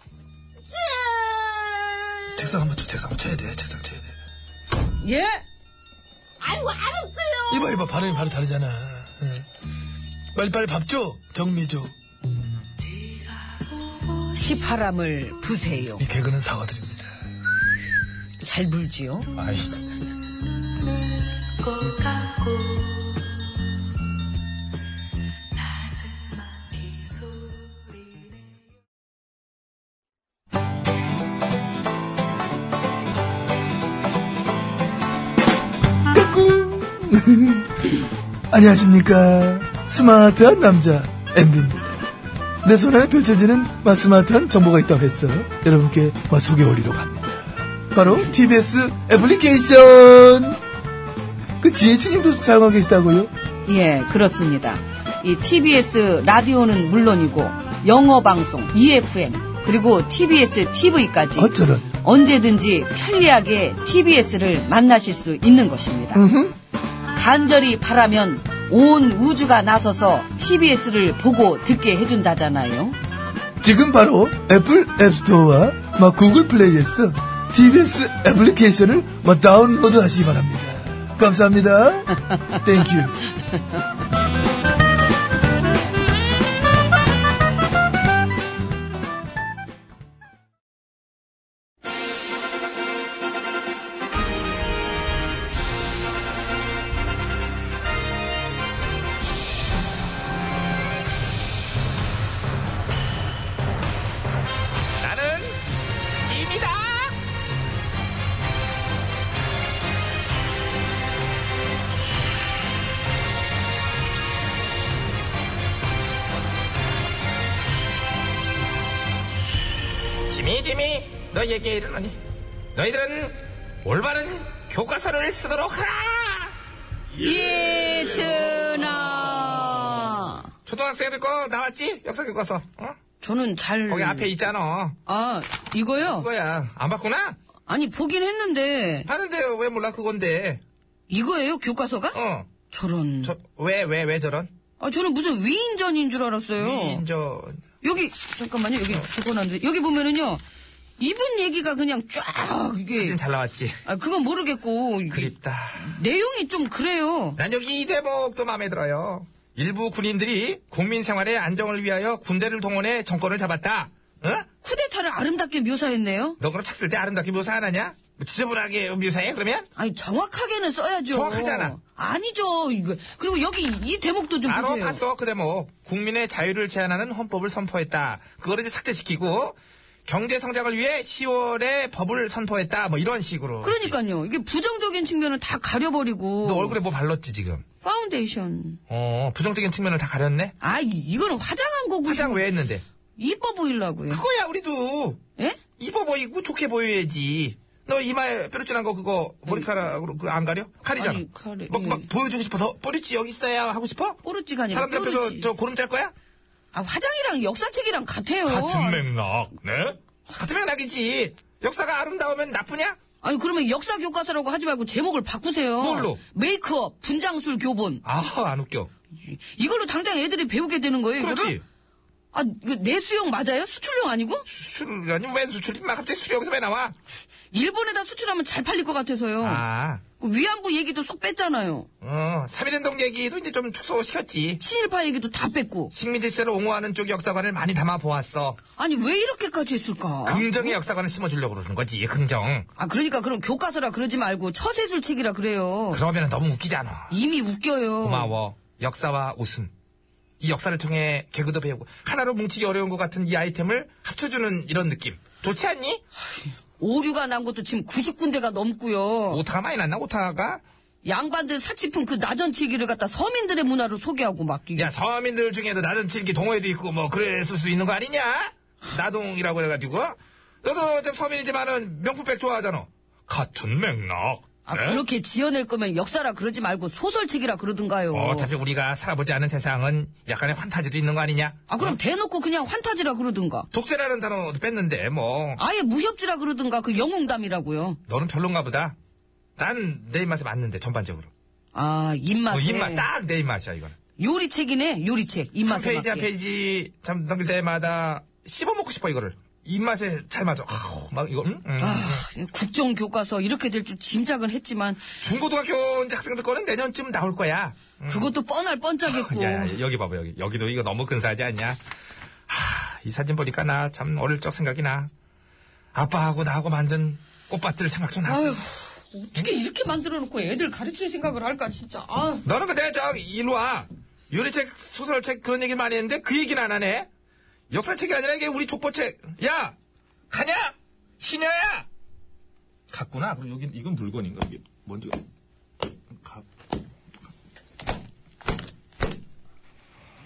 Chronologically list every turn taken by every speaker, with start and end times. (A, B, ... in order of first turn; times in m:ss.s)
0:00.7-0:02.2 A
0:02.4-0:04.1 B
0:05.0-0:05.4 A
0:06.4-0:07.5 A
0:07.5-0:09.5 B
0:10.4-0:11.9 B
0:14.2-0:16.0 A
0:16.0-0:17.1 B
0:18.4-0:19.3 A
0:19.4-0:19.8 C
0:21.9-0:22.7 A
0:26.6-0:26.8 A
0:36.1-0:37.7 B
0:38.5-0:42.1 B
0:42.6-0:50.6 B
0:51.6-0:53.3 B
0:53.7-1:06.3 A
1:01.4-1:01.9 B
1:06.2-1:06.6 B
1:07.1-1:13.0 A
1:13.6-1:23.2 B
1:45.0-1:45.6 C
1:46.2-1:47.2 C
2:00.3-2:02.2 C
2:02.8-2:06.6 C
2:07.2-2:10.5 A
2:10.7-2:13.0 C
2:13.2-2:14.4 A
2:13.9-2:15.0 C
2:15.1-2:16.3 A
2:16.0-2:17.4 C
2:17.7-2:19.1 A
2:19.1-2:20.6 C
2:21.1-2:22.2 A
2:22.1-2:22.5 C
2:22.7-2:23.4 A
2:23.2-2:24.5 C
2:24.8-2:27.0 A
2:26.6-2:27.6 C
2:27.8-2:30.4 A
2:31.0-2:33.2 A
2:32.9-2:33.8 C
2:33.8-2:37.4 A
2:35.1-2:35.9 C
2:37.4-2:44.5 C
2:44.6-2:46.4 A
2:46.4-2:49.7 C
2:49.8-2:55.0 A
2:51.1-2:51.8 C
2:54.5-3:04.0 C
3:03.6-3:06.8 A
3:06.4-3:07.6 C
3:07.8-3:08.8 A
3:08.9-3:10.6 C
3:10.6-3:12.4 A
3:12.0-3:12.8 C
3:13.2-3:14.2 A
3:14.1-3:15.2 C
3:15.8-3:26.1 C
3:21.0-3:22.1 A
3:24.2-3:25.5 A
3:26.7-3:29.1 A
3:28.4-3:33.0 C
3:33.2-3:38.0 A
3:35.8-3:36.2 C
3:38.0-3:38.9 C
3:39.2-3:41.6 A
3:41.2-3:41.6 C
3:42.3-3:44.4 A
3:44.5-3:47.0 C
3:47.5-3:49.6 A
3:49.4-3:50.0 C
3:50.2-3:51.9 A
3:52.0-3:54.6 C
3:54.6-3:55.9 A
3:55.9-3:58.6 C
3:58.8-4:00.8 A
4:00.2-4:02.7 C
4:02.8-4:06.0 A
4:05.9-4:07.1 C
4:07.1-4:08.3 A
4:08.0-4:09.7 C
4:10.4-4:16.0 C
4:16.4-4:19.4 A
4:19.3-4:20.6 C
4:21.0-4:24.9 A
4:24.8-4:35.0 C
4:34.7-4:38.5 A
4:38.1-4:42.0 C
4:41.7-4:43.7 A
4:43.7-4:45.6 C
4:45.6-4:48.0 A
4:48.1-4:49.0 C
4:49.6-4:51.3 C
4:51.7-4:53.1 A
4:52.5-4:54.0 C
4:54.2-4:56.3 A
4:55.6-5:02.2 C
5:01.8-5:05.0 A
5:05.2-5:08.3 C
5:08.1-5:09.8 A
5:09.0-5:11.8 C
5:12.5-5:15.1 C
5:15.9-5:18.6 C
5:18.3-5:22.4 A
5:22.4-5:27.1 C
5:27.7-5:29.8 C
5:30.3-5:31.9 C
5:32.9-5:35.2 C